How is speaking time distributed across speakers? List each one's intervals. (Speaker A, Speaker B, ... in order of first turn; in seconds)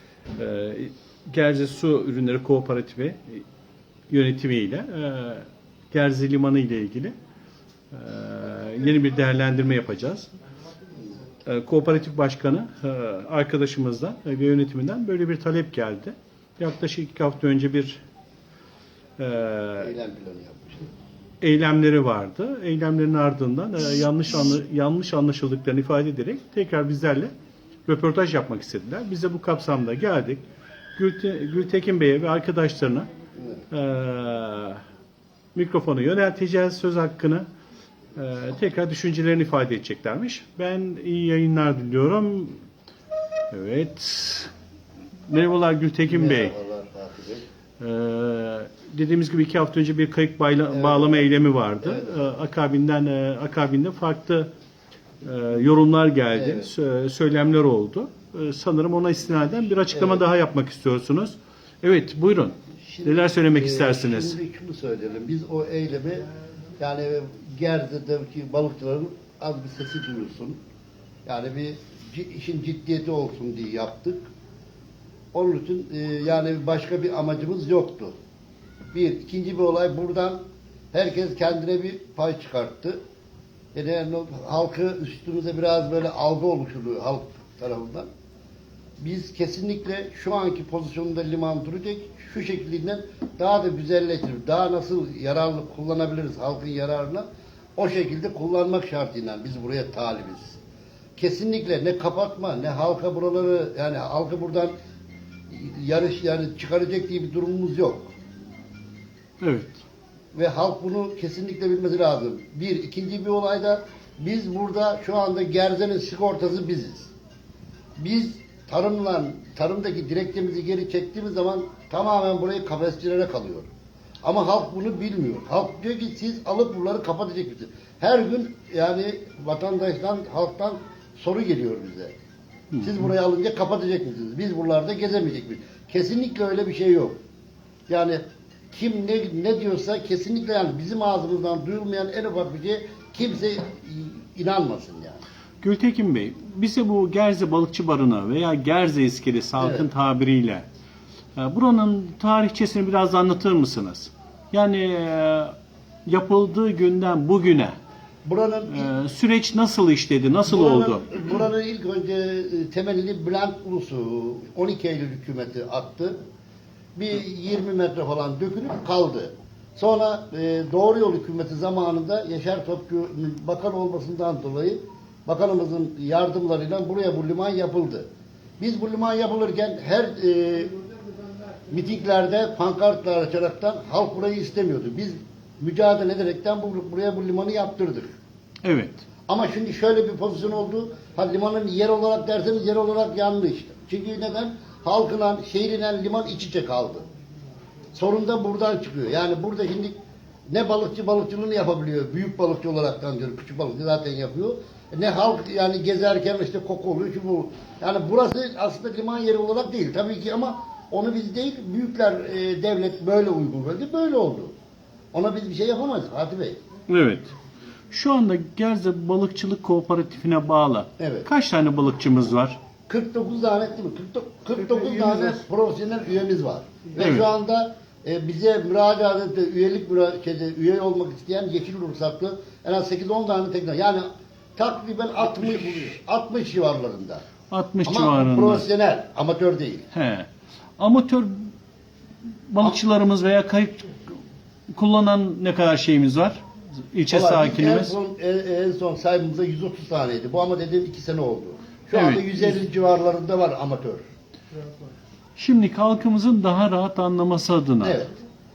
Speaker A: 0.3-3.4, 4.1-7.1, 7.9-10.3, 11.4-18.0, 19.2-19.9, 21.4-27.3, 27.9-30.4, 30.9-33.1, 33.7-34.8, 35.5-37.5, 38.1-42.6, 43.5-44.5, 45.3-46.5, 47.8-54.5, 55.2-64.4, 109.4-109.8, 132.7-133.0, 145.6-150.6, 151.3-155.5, 156.1-157.7, 158.7-161.0, 188.6-189.0, 216.9-217.3, 217.9-222.6, 227.0-227.2, 237.5-238.7, 239.9-241.5, 242.5-243.9, 244.7-247.9, 251.9-252.6, 255.3-258.1
Speaker B: 19.8-20.9, 33.4-33.6, 46.0-47.4, 50.7-52.2, 56.3-56.7, 59.9-60.2, 62.8-66.2, 66.8-70.6, 71.2-74.3, 75.3-78.1, 78.9-80.4, 80.9-83.0, 83.7-88.1, 89.0-97.2, 97.8-100.6, 101.2-104.7, 105.5-108.1, 110.3-117.1, 118.0-123.7, 124.2-132.1, 132.8-137.2, 137.9-138.2, 138.7-145.2, 149.6-149.9, 158.2-158.9, 160.5-166.2, 166.9-178.1, 178.6-180.8, 181.7-188.1, 189.3-197.1, 197.9-199.9, 200.5-214.5, 215.1-216.6, 221.0-221.3, 222.9-237.2, 237.8-239.9, 247.1-254.0, 257.8-258.1